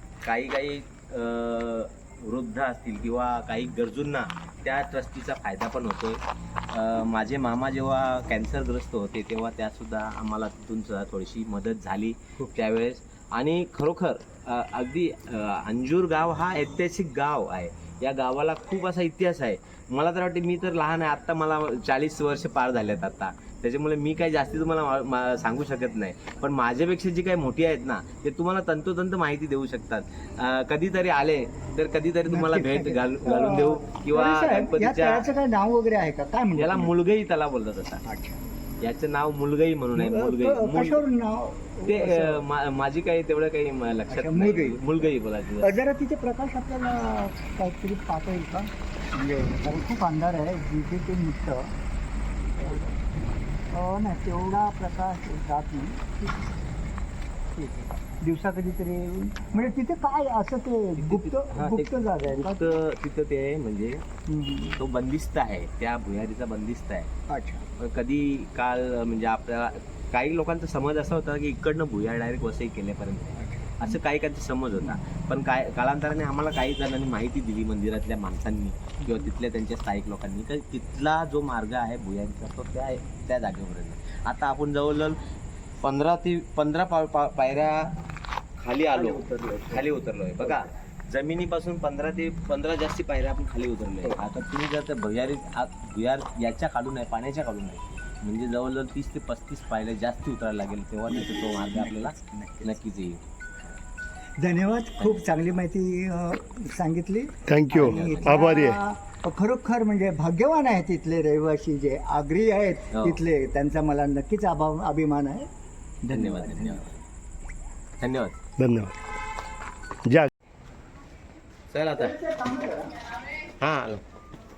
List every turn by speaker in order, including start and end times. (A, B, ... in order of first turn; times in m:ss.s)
0:00.2-0:35.3 A
0:32.3-0:36.9 B
0:36.6-0:38.0 A
0:38.1-0:38.4 B
0:38.8-0:41.0 A
0:40.0-0:42.4 B
0:41.9-0:45.7 A
0:44.1-0:51.7 B
0:52.6-0:52.9 B
0:53.7-0:56.7 B
0:57.6-1:02.7 B
1:01.0-1:04.0 A
1:04.3-1:04.8 B
1:04.8-1:07.1 A
1:07.3-1:07.6 B
1:07.8-1:25.2 A
1:13.4-1:14.0 B
1:19.0-1:19.3 B
1:25.8-1:27.9 A
1:28.6-1:43.2 A
1:28.9-1:30.7 B
1:41.1-1:42.8 B
1:44.4-1:55.5 B
1:45.0-1:45.3 A
1:47.5-1:48.8 C
1:47.7-1:48.6 A
1:52.9-1:53.2 A
1:56.0-1:56.8 B
1:56.1-1:57.0 A
1:58.0-1:58.4 A
1:58.6-1:59.0 C
2:00.0-2:00.3 C
2:01.7-2:02.2 A
2:02.0-2:02.9 B
2:03.6-2:04.0 A